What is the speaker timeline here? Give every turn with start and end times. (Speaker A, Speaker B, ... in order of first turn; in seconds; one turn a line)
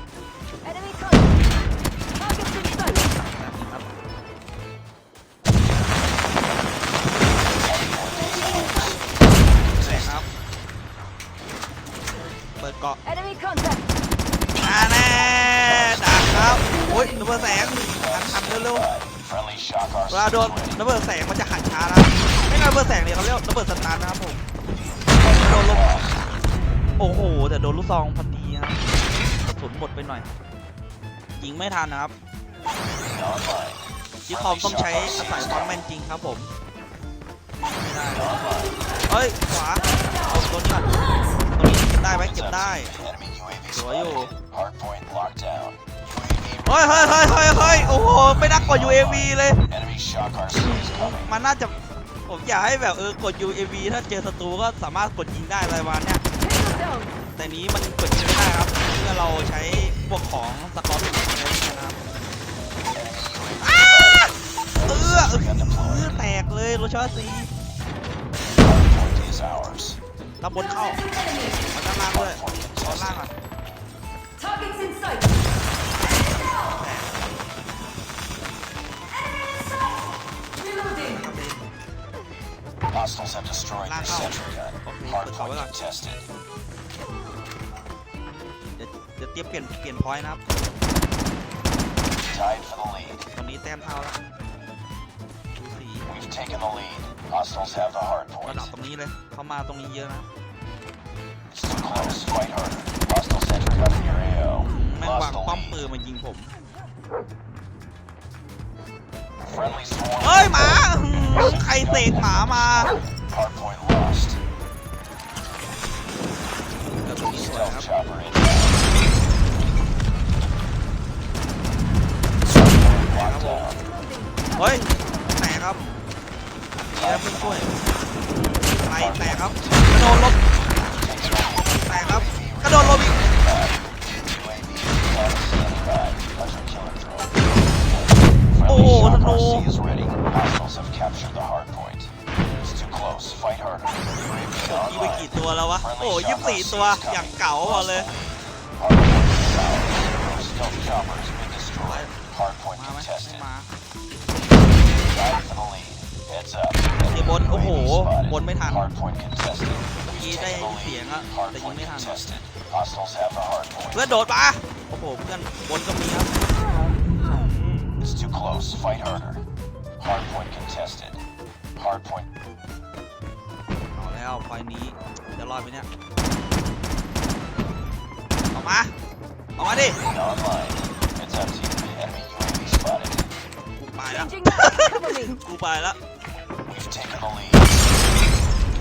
Speaker A: 0.7-1.3
Speaker A: 2.2-3.0
Speaker B: 3.2-3.9
Speaker C: 7.5-10.2
Speaker B: 9.8-10.3
Speaker B: 12.6-13.0
Speaker A: 13.1-13.9
Speaker B: 14.6-18.9
Speaker C: 15.6-20.9
Speaker B: 20.1-24.4
Speaker C: 25.1-26.3
Speaker B: 25.3-25.9
Speaker B: 27.0-28.9
Speaker B: 29.4-30.3
Speaker B: 31.4-32.1
Speaker C: 33.0-35.8
Speaker B: 34.3-36.5
Speaker B: 37.8-42.9
Speaker C: 38.1-38.7
Speaker C: 42.0-51.3
Speaker B: 43.7-44.3
Speaker B: 46.7-49.6
Speaker B: 50.5-51.8
Speaker B: 52.3-56.2
Speaker A: 56.4-57.1
Speaker B: 57.4-62.0
Speaker C: 62.9-66.2
Speaker B: 63.6-64.3
Speaker B: 64.8-67.5
Speaker C: 68.5-70.0
Speaker B: 70.4-71.1
Speaker B: 71.7-73.3
Speaker C: 72.0-73.3
Speaker A: 74.4-75.2
Speaker B: 76.5-77.3
Speaker B: 80.8-81.7
Speaker C: 82.9-86.3
Speaker B: 83.8-85.7
Speaker B: 88.7-90.4
Speaker C: 92.3-93.3
Speaker B: 93.3-94.2
Speaker B: 95.6-96.1
Speaker C: 96.1-98.7
Speaker B: 98.4-100.3
Speaker C: 101.5-105.8
Speaker B: 104.7-106.5
Speaker C: 109.4-114.4
Speaker B: 110.2-113.0
Speaker B: 117.0-117.9
Speaker C: 117.2-118.8
Speaker C: 122.4-123.8
Speaker B: 123.1-123.7
Speaker B: 124.6-126.0
Speaker C: 126.9-127.8
Speaker B: 127.0-127.8
Speaker B: 128.6-130.4
Speaker C: 128.8-130.0
Speaker C: 130.9-153.4
Speaker B: 131.8-133.3
Speaker B: 138.7-139.7
Speaker B: 144.7-148.1
Speaker B: 151.8-152.1
Speaker B: 152.8-153.7
Speaker C: 155.1-164.1
Speaker B: 157.1-158.8
Speaker B: 160.2-162.2
Speaker B: 163.9-166.4
Speaker B: 167.2-167.9
Speaker C: 168.0-169.4
Speaker C: 170.0-171.2
Speaker C: 171.8-172.3
Speaker B: 173.9-175.9
Speaker B: 178.5-178.9
Speaker B: 179.6-180.0
Speaker C: 180.1-183.3
Speaker B: 183.8-186.0
Speaker A: 184.2-185.3
Speaker C: 186.7-187.8